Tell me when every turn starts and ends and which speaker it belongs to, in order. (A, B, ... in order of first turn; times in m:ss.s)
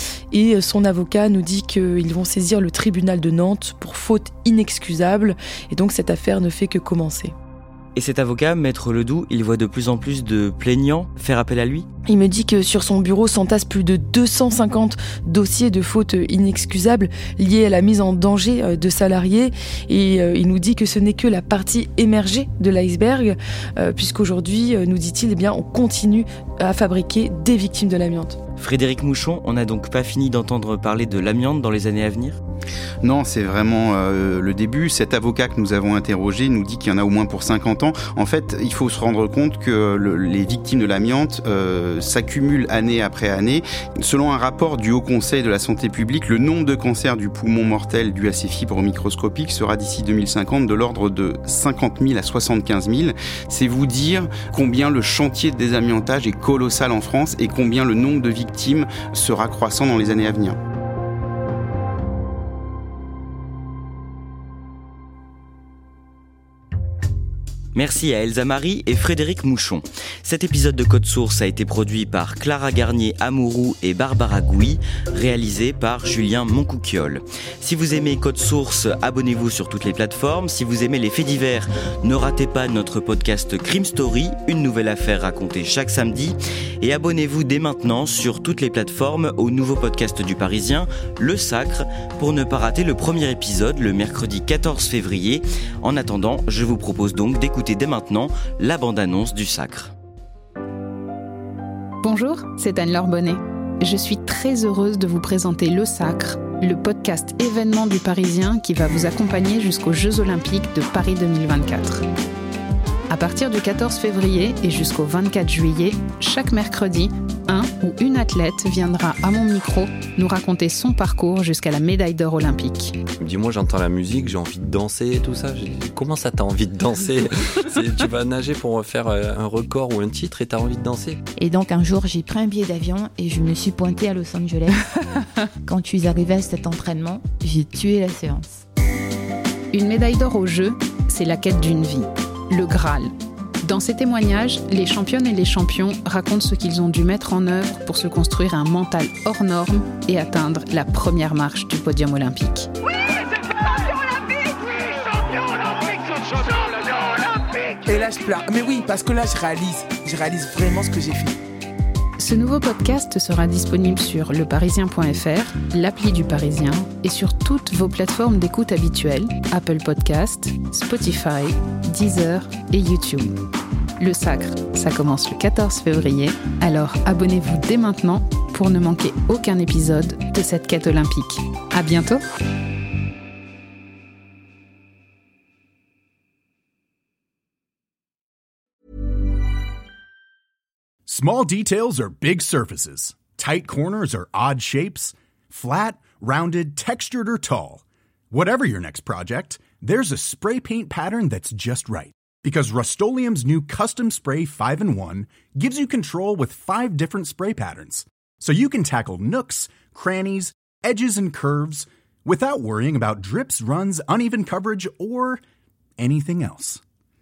0:00.3-0:07.3 A
0:08.0-0:11.8 B
0:12.1-0:28.4 A
0:28.6-0:32.4 B
0:33.0-1:00.6 C
1:07.7-1:39.9 B
1:42.0-1:52.0 D
1:53.1-2:03.0 D
2:03.2-2:11.2 E
2:11.4-2:14.7 F
2:15.6-2:18.6 F
2:19.7-2:23.1 D
2:23.6-2:32.7 D
2:37.8-2:41.3 G
2:42.2-2:53.4 D
2:54.0-3:02.2 D
3:11.1-3:35.4 H
3:36.0-3:36.8 H